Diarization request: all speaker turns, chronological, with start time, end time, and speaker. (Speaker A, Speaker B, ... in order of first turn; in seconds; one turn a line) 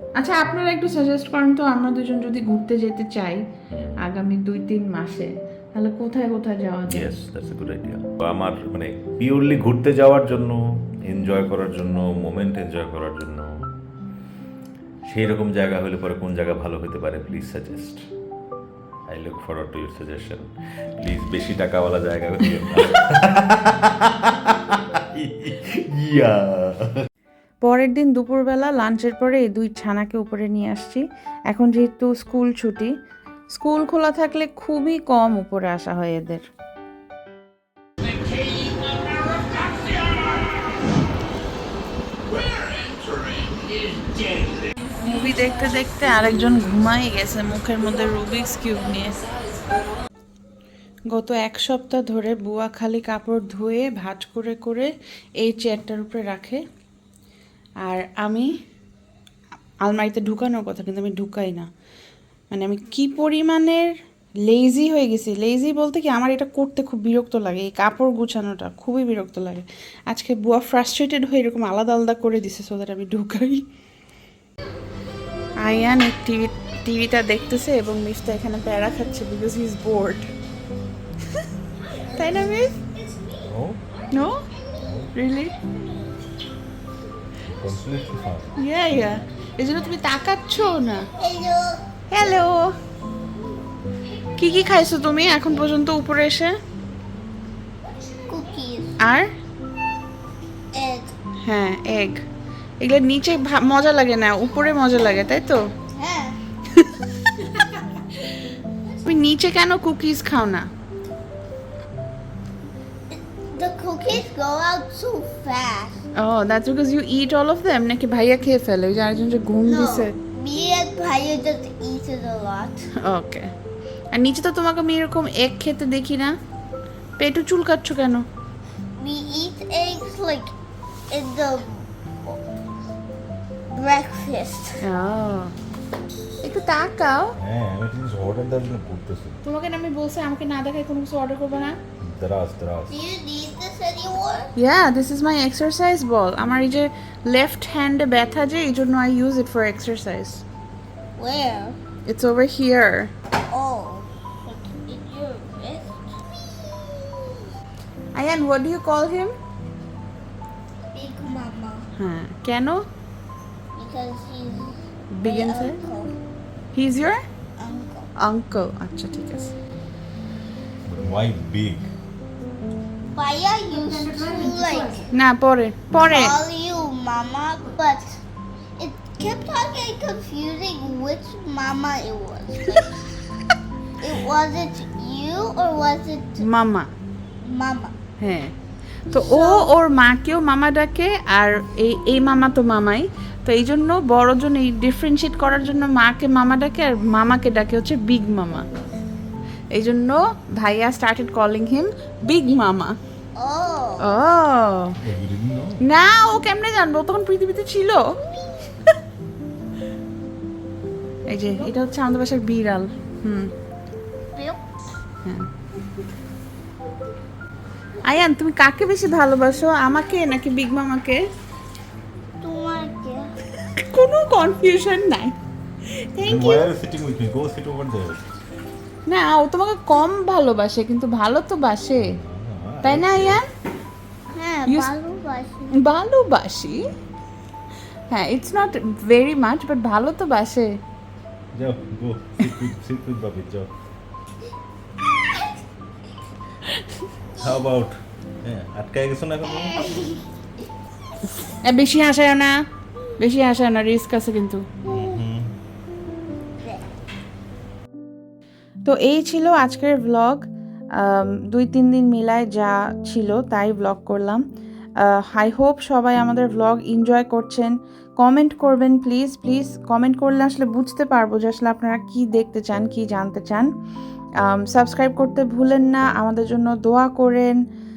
Speaker A: 0.1-3.4
Speaker B: 3.7-4.0
Speaker A: 4.0-7.1
Speaker B: 6.9-13.7
Speaker B: 15.1-18.0
Speaker B: 19.1-20.5
Speaker B: 21.0-26.9
Speaker A: 27.6-32.9
Speaker A: 33.5-36.4
Speaker A: 45.0-49.3
Speaker A: 51.1-56.6
Speaker A: 57.8-58.5
Speaker A: 59.8-61.7
Speaker A: 62.5-63.9
Speaker A: 64.5-73.6
Speaker A: 75.6-80.2
Speaker A: 82.1-82.7
Speaker B: 83.5-83.8
Speaker A: 84.1-84.4
Speaker B: 84.8-85.1
Speaker A: 85.1-85.5
Speaker B: 87.4-88.5
Speaker A: 88.6-91.1
Speaker C: 91.1-91.8
Speaker A: 92.1-92.7
Speaker A: 94.4-96.5
Speaker C: 98.3-98.9
Speaker A: 99.0-99.3
Speaker C: 100.7-101.1
Speaker A: 101.4-102.2
Speaker A: 102.8-105.6
Speaker C: 105.9-106.4
Speaker A: 106.8-107.5
Speaker A: 109.0-110.7
Speaker C: 113.1-116.0
Speaker A: 116.2-120.1
Speaker C: 119.6-122.8
Speaker A: 123.0-123.5
Speaker A: 124.1-126.3
Speaker A: 127.2-128.2
Speaker C: 129.0-130.5
Speaker C: 131.1-132.4
Speaker C: 133.7-134.8
Speaker A: 134.8-135.5
Speaker A: 136.4-137.3
Speaker B: 137.4-139.4
Speaker A: 139.4-141.8
Speaker B: 142.0-142.9
Speaker C: 142.9-144.5
Speaker A: 144.6-150.4
Speaker C: 151.2-151.8
Speaker A: 152.1-153.1
Speaker C: 153.5-157.0
Speaker A: 158.1-159.3
Speaker C: 160.9-161.8
Speaker A: 162.0-162.8
Speaker C: 163.8-166.1
Speaker A: 165.2-165.8
Speaker A: 166.7-167.2
Speaker C: 167.6-168.1
Speaker A: 168.2-169.5
Speaker B: 170.8-171.9
Speaker C: 173.1-175.1
Speaker A: 175.1-176.4
Speaker C: 175.9-178.2
Speaker C: 178.8-183.0
Speaker C: 184.0-186.4
Speaker A: 186.4-186.9
Speaker C: 187.4-187.9
Speaker A: 188.2-188.5
Speaker A: 189.1-198.7
Speaker C: 189.1-189.7
Speaker A: 199.7-202.9
Speaker C: 203.3-204.1
Speaker A: 204.0-205.0
Speaker B: 205.0-205.8
Speaker A: 205.8-208.1
Speaker A: 211.3-213.5
Speaker C: 214.3-214.6
Speaker A: 218.0-221.2
Speaker C: 222.4-223.3
Speaker A: 223.7-225.3
Speaker A: 225.9-226.7
Speaker B: 226.2-228.2
Speaker A: 229.1-232.1
Speaker B: 232.0-233.4
Speaker A: 232.8-233.5
Speaker C: 234.3-235.8
Speaker A: 234.7-234.9
Speaker A: 235.7-236.8
Speaker A: 238.1-240.7
Speaker B: 241.5-243.7
Speaker A: 246.7-247.1
Speaker B: 247.3-249.8
Speaker C: 249.6-250.2
Speaker A: 251.4-252.6
Speaker A: 253.2-254.7
Speaker B: 254.8-255.5
Speaker A: 258.8-260.4
Speaker A: 261.0-264.4
Speaker A: 265.0-273.7
Speaker A: 274.4-277.6